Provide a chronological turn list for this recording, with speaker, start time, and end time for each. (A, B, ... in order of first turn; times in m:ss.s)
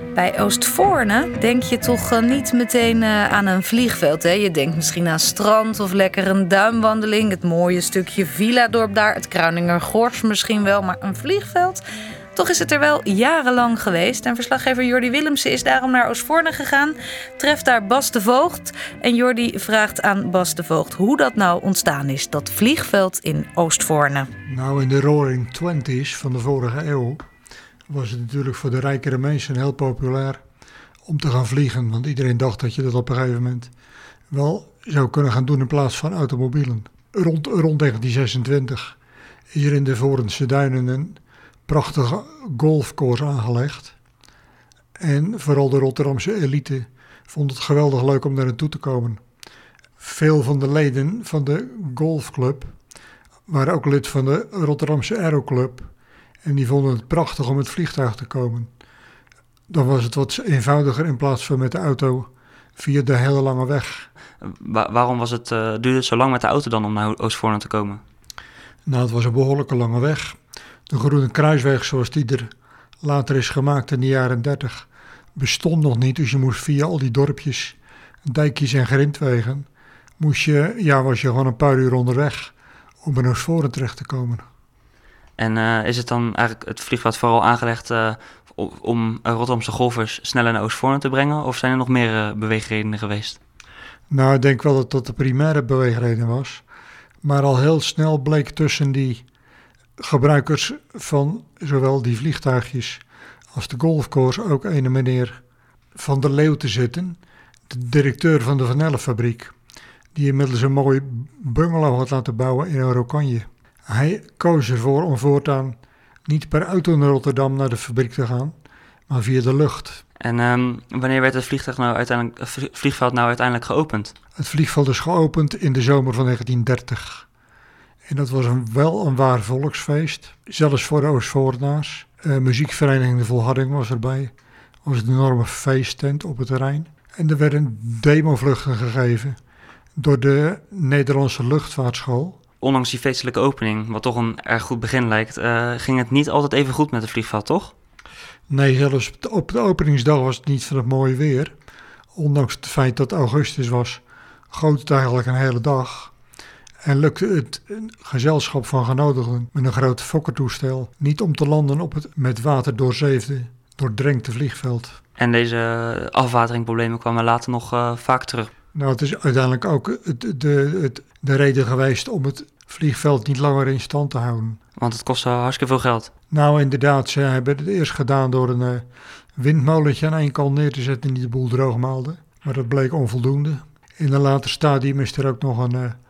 0:00.1-0:11.8 A
0:12.3-0:24.3 A
0:24.4-0:27.2 B
0:27.9-0:30.4 B
0:31.0-0:33.7 B
0:34.3-0:38.9 B
0:39.5-0:43.9 B
0:45.0-0:49.2 B
0:50.0-0:52.7 B
0:53.5-0:55.9 B
0:56.4-0:58.7 B
0:59.7-1:04.1 B
1:04.4-1:08.0 C
1:08.8-1:10.4 B
1:10.9-1:12.5 B
1:13.0-1:19.7 B
1:20.2-1:24.4 B
1:25.4-1:33.4 C
1:34.1-1:36.6 B
1:37.2-1:39.2 B
1:40.0-1:43.0 B
1:43.5-1:45.4 B
1:45.9-1:47.2 B
1:47.7-1:49.5 B
1:50.1-1:58.5 B
1:59.1-2:00.0 B
2:00.2-2:04.1 C
2:04.4-2:07.2 B
2:08.0-2:14.3 B
2:14.8-2:19.4 B
2:20.0-2:22.4 B
2:22.6-2:27.7 C
2:28.5-2:31.5 B
2:32.1-2:36.1 B
2:36.8-2:45.0 B
2:45.2-2:48.5 C
2:48.7-2:54.6 B
2:54.8-2:56.1 C
2:56.3-2:58.8 B
2:59.4-3:06.0 B